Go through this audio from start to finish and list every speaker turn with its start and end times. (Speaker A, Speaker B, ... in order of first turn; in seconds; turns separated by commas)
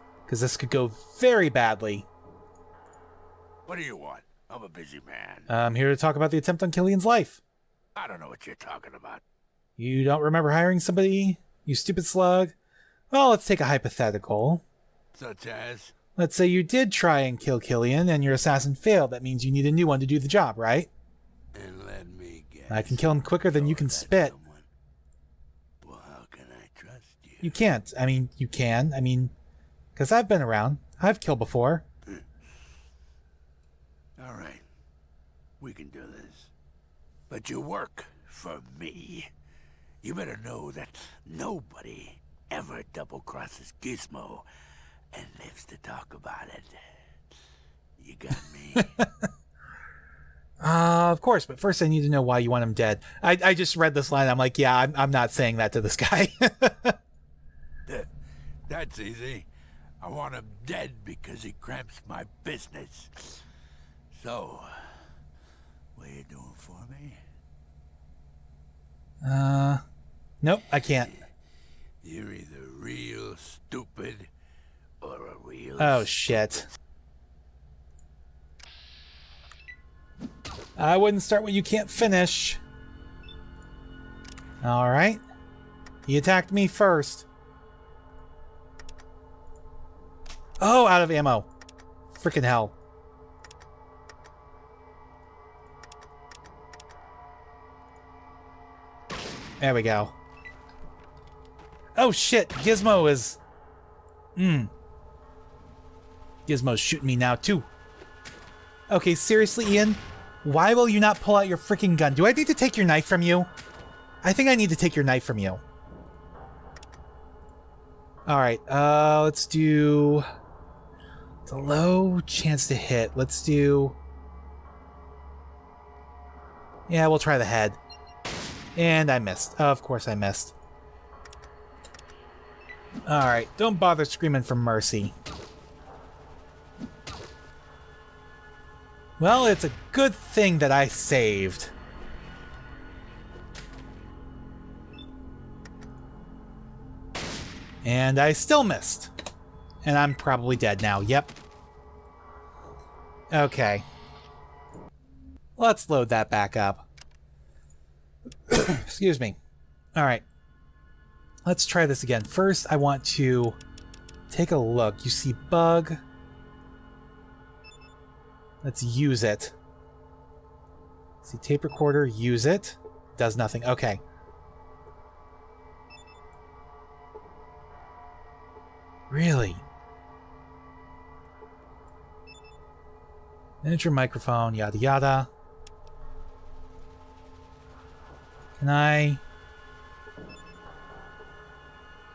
Speaker A: 0.3-2.1, Speaker B: 3.7-5.5, Speaker A: 5.5-7.4, Speaker B: 8.0-9.2, Speaker A: 9.8-12.5, Speaker A: 13.1-14.6, Speaker B: 15.1-15.9, Speaker A: 16.2-20.9, Speaker B: 21.5-24.6, Speaker A: 22.7-24.3, Speaker B: 25.8-27.5, Speaker A: 27.4-29.3, Speaker A: 29.9-31.8, Speaker B: 34.2-34.6, Speaker B: 35.6-36.5, Speaker B: 37.3-39.3, Speaker B: 40.0-44.5, Speaker B: 45.1-46.8, Speaker B: 48.0-49.0, Speaker A: 48.8-49.1, Speaker A: 50.6-57.0, Speaker B: 57.9-58.1, Speaker B: 58.7-59.5, Speaker B: 60.0-63.4, Speaker B: 64.1-65.1, Speaker B: 66.0-67.2, Speaker A: 69.2-69.8, Speaker A: 70.4-71.1, Speaker B: 72.0-74.3, Speaker B: 75.0-76.5, Speaker A: 75.8-76.7, Speaker A: 80.8-82.6, Speaker A: 84.6-85.2, Speaker A: 86.1-87.3, Speaker A: 90.6-91.5, Speaker A: 92.1-92.7, Speaker A: 99.6-100.2, Speaker A: 102.0-103.4, Speaker A: 104.3-104.7, Speaker A: 106.5-107.7, Speaker A: 108.9-113.5, Speaker A: 114.2-115.6, Speaker A: 118.2-120.2, Speaker A: 121.5-124.0, Speaker A: 126.9-127.8, Speaker A: 128.7-130.5, Speaker A: 133.1-135.1, Speaker A: 139.2-141.7, Speaker A: 147.8-149.1, Speaker A: 149.8-151.3, Speaker A: 153.3-153.8, Speaker A: 155.6-156.8, Speaker A: 158.5-159.4, Speaker A: 159.9-160.2, Speaker A: 161.4-163.6, Speaker A: 164.3-166.0, Speaker A: 168.6-169.5, Speaker A: 171.2-174.0, Speaker A: 179.1-179.6, Speaker A: 183.6-185.3, Speaker A: 188.6-189.2